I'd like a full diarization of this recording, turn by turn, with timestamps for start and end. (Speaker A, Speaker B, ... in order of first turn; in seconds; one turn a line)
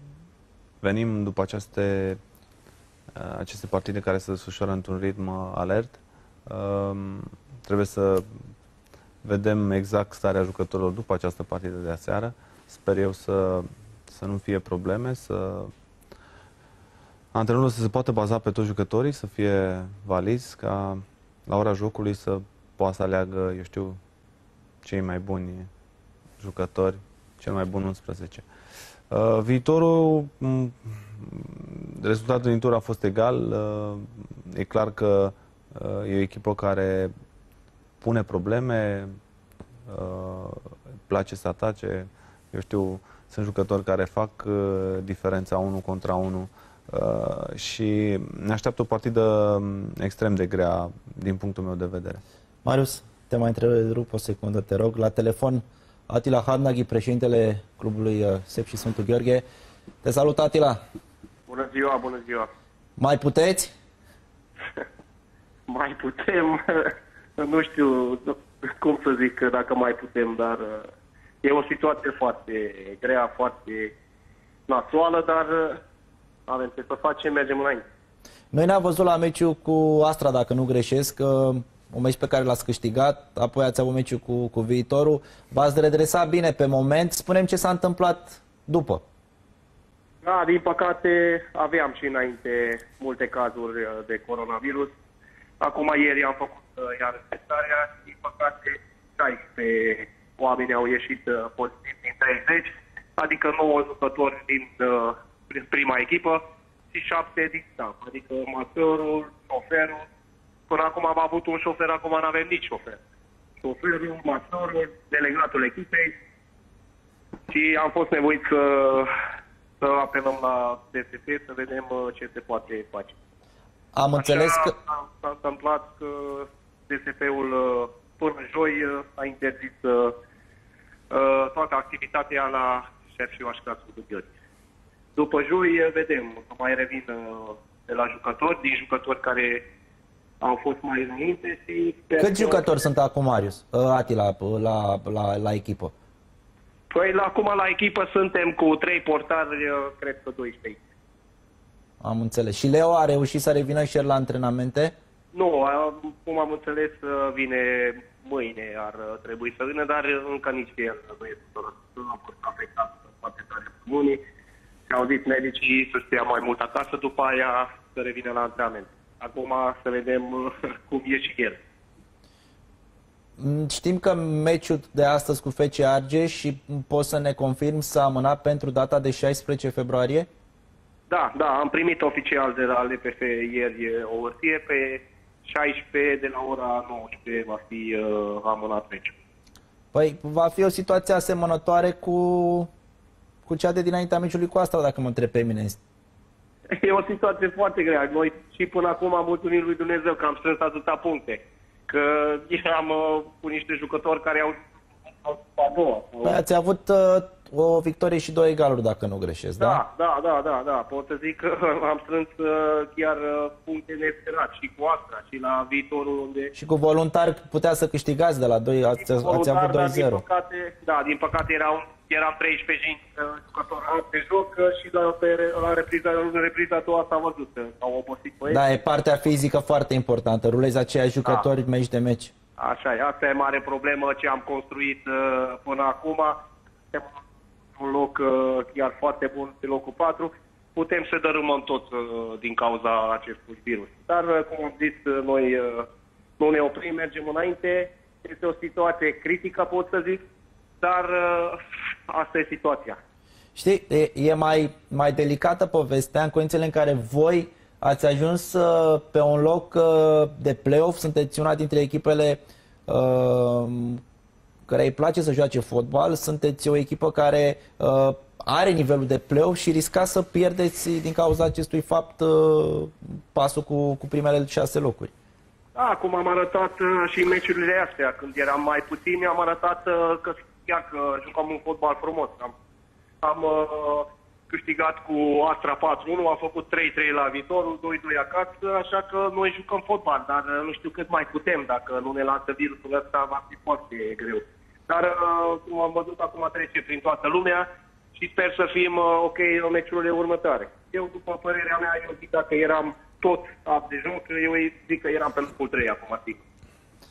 Speaker A: 0.8-2.2
Speaker A: 3.1-8.3
Speaker A: 9.2-15.7
Speaker A: 17.3-24.0
Speaker A: 24.8-25.7
Speaker A: 26.4-28.5
Speaker A: 29.1-37.1
Speaker A: 38.0-39.1
Speaker A: 39.9-52.2
Speaker B: 52.6-59.4
Speaker B: 60.0-60.8
Speaker C: 61.5-62.5
Speaker B: 63.0-63.7
Speaker C: 65.7-70.9
Speaker C: 71.4-73.9
Speaker C: 74.7-75.8
Speaker C: 76.5-77.8
Speaker B: 78.5-89.0
Speaker C: 90.2-94.9
Speaker C: 95.6-110.0
Speaker C: 110.7-113.0
Speaker C: 113.6-116.2
Speaker C: 117.5-119.1
Speaker C: 119.8-123.1
Speaker B: 123.9-124.7
Speaker C: 124.2-130.1
Speaker C: 131.1-134.3
Speaker C: 135.2-139.7
Speaker C: 140.4-142.7
Speaker B: 142.2-145.9
Speaker C: 146.9-150.8
Speaker B: 152.0-154.9
Speaker C: 155.3-164.2
Speaker C: 164.9-171.6
Speaker B: 173.4-180.3
Speaker C: 181.1-189.1
Speaker B: 189.9-192.7
Speaker B: 193.4-195.8
Speaker C: 196.7-206.4
Speaker B: 206.2-209.8
Speaker C: 209.6-216.5
Speaker B: 216.6-220.2
Speaker C: 219.0-228.6
Speaker B: 228.5-232.3
Speaker C: 232.6-236.4
Speaker C: 237.8-245.9
Speaker C: 246.4-250.2
Speaker C: 250.8-253.0
Speaker B: 253.6-264.0
Speaker B: 264.7-275.1
Speaker C: 275.8-282.5
Speaker C: 283.2-306.4